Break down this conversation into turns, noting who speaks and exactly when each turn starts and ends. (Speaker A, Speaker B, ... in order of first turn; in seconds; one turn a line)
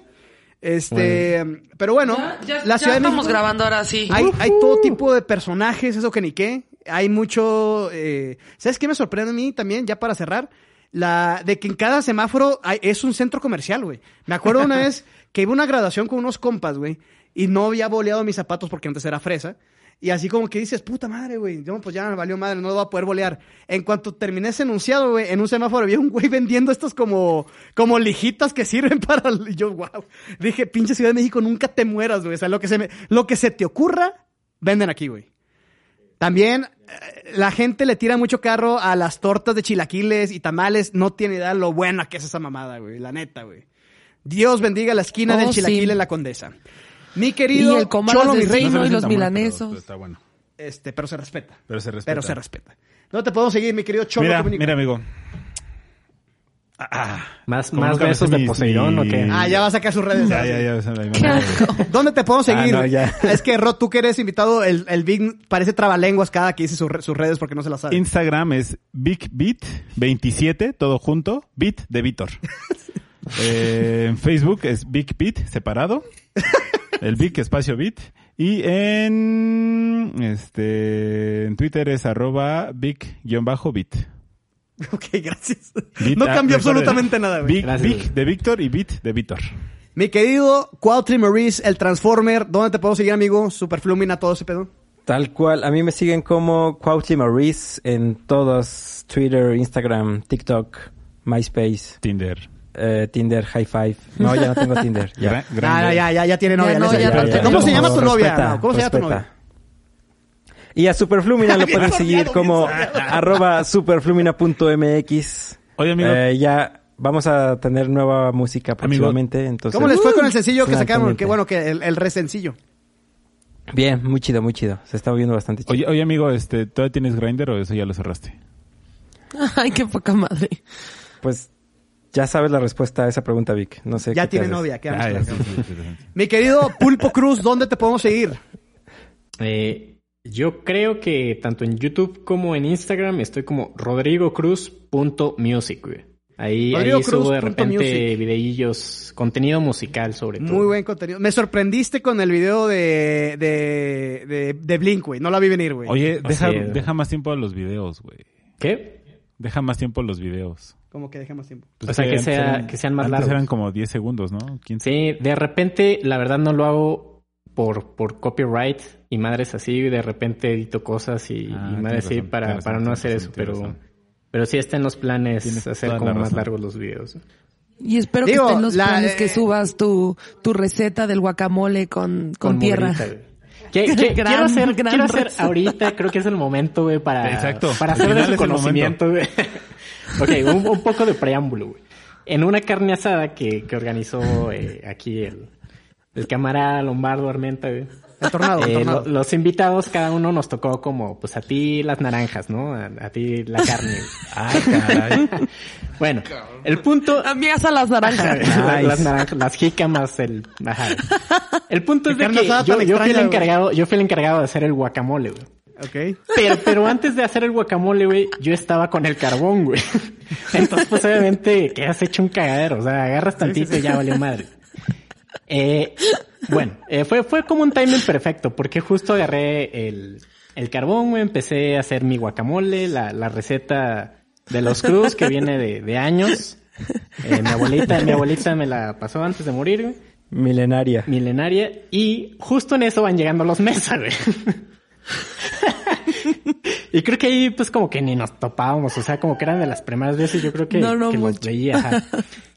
Speaker A: 0.6-3.4
Speaker B: 0.9-1.3
Speaker C: 2.0-4.3
Speaker A: 4.1-35.3
Speaker B: 4.2-4.9
Speaker A: 36.2-43.6
Speaker A: 44.2-46.5
Speaker C: 45.3-46.0
Speaker A: 47.1-48.8
Speaker C: 47.5-49.8
Speaker D: 48.5-50.2
Speaker A: 50.6-54.7
Speaker D: 51.7-52.4
Speaker D: 54.1-55.1
Speaker D: 56.8-59.6
Speaker B: 57.5-59.4
Speaker A: 59.3-60.7
Speaker D: 60.2-61.8
Speaker C: 61.1-61.9
Speaker A: 61.8-68.0
Speaker E: 62.5-63.4
Speaker D: 67.9-72.4
Speaker D: 73.3-76.0
Speaker D: 77.0-84.1
Speaker A: 84.8-87.6
Speaker D: 86.0-89.5
Speaker B: 87.6-88.1
Speaker A: 90.0-94.7
Speaker E: 95.1-102.0
Speaker D: 102.0-102.5
Speaker E: 102.7-105.4
Speaker D: 105.2-106.1
Speaker A: 105.6-109.2
Speaker C: 106.5-107.8
Speaker E: 106.9-109.3
Speaker D: 107.1-108.1
Speaker E: 110.7-121.4
Speaker A: 111.4-113.2
Speaker D: 112.6-113.2
Speaker D: 115.8-116.2
Speaker D: 118.8-119.2
Speaker A: 119.7-122.6
Speaker C: 119.9-120.3
Speaker E: 123.7-125.8
Speaker D: 125.7-128.4
Speaker C: 129.3-130.6
Speaker E: 131.2-131.5
Speaker E: 132.1-134.7
Speaker A: 134.1-135.6
Speaker D: 134.9-136.0
Speaker A: 136.1-138.4
Speaker B: 139.4-150.7
Speaker A: 146.7-148.1
Speaker A: 150.4-156.0
Speaker D: 155.8-158.3
Speaker B: 156.2-156.8
Speaker B: 158.6-159.0
Speaker D: 159.4-160.7
Speaker A: 160.9-161.7
Speaker D: 161.8-164.9
Speaker B: 161.8-163.4
Speaker B: 164.8-173.8
Speaker D: 171.5-173.8
Speaker B: 174.3-177.2
Speaker D: 175.4-176.5
Speaker C: 177.8-183.1
Speaker A: 178.2-179.4
Speaker B: 182.4-195.5
Speaker C: 183.8-185.8
Speaker D: 187.2-189.0
Speaker B: 196.1-197.9
Speaker A: 198.2-199.1
Speaker B: 198.6-205.4
Speaker E: 204.3-205.2
Speaker B: 206.0-207.3
Speaker C: 207.2-208.5
Speaker B: 208.2-211.1
Speaker E: 208.4-209.1
Speaker C: 211.0-211.4
Speaker B: 211.7-215.5
Speaker A: 212.1-213.5
Speaker A: 215.8-216.2
Speaker B: 216.3-224.5
Speaker A: 223.4-224.0
Speaker B: 225.5-236.6
Speaker B: 237.2-240.0
Speaker E: 240.3-241.1
Speaker B: 241.1-244.6
Speaker B: 245.4-252.0
Speaker C: 250.7-252.2